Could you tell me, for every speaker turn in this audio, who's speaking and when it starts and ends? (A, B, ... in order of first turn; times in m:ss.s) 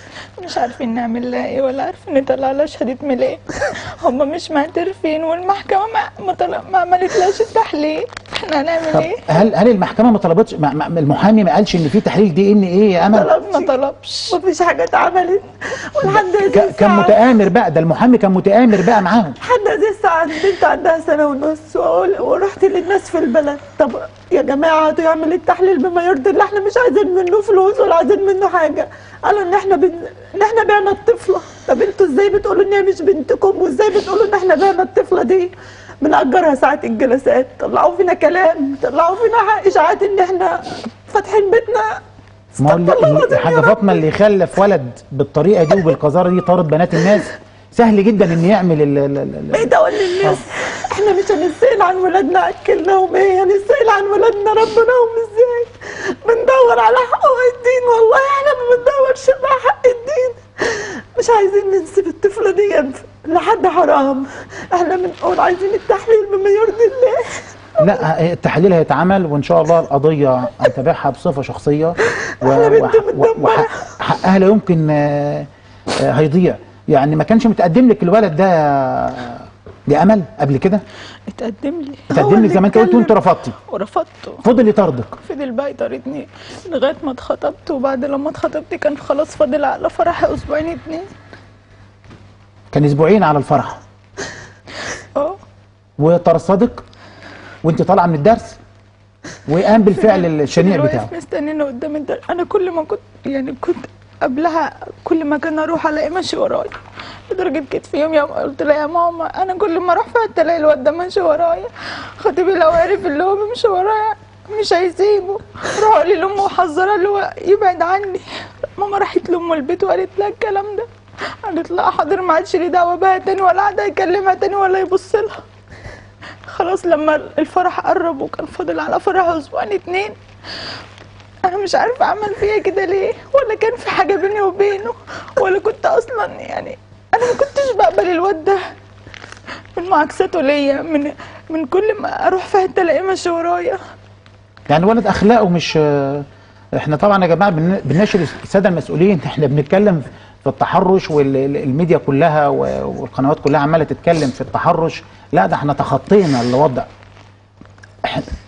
0:00.4-0:09.3 A
0:08.9-0:13.3 B
0:13.1-0:13.7 C
0:13.4-0:14.4 A
0:14.3-0:17.1 C
0:16.0-0:19.4 B
0:19.4-0:42.0 C
0:42.5-0:43.9 C
0:42.6-0:49.7 B
0:49.5-1:08.0 C
1:07.8-1:15.5 B
1:12.4-1:13.9 C
1:16.0-1:20.8 B
1:21.3-1:22.1 A
1:22.1-1:23.5 B
1:22.1-1:23.1 C
1:23.6-1:24.4 A
1:24.4-1:25.1 B
1:25.2-1:31.1 A
1:32.7-1:33.8 B
1:36.0-1:36.8 B
1:37.6-1:38.6 B
1:39.5-1:41.1 B
1:40.0-1:46.8 A
1:47.3-2:00.9 A
2:01.4-2:05.4 A
2:06.5-2:10.2 A
2:11.4-2:18.6 A
2:19.7-2:23.8 A
2:24.7-2:36.9 B
2:38.0-2:38.3 B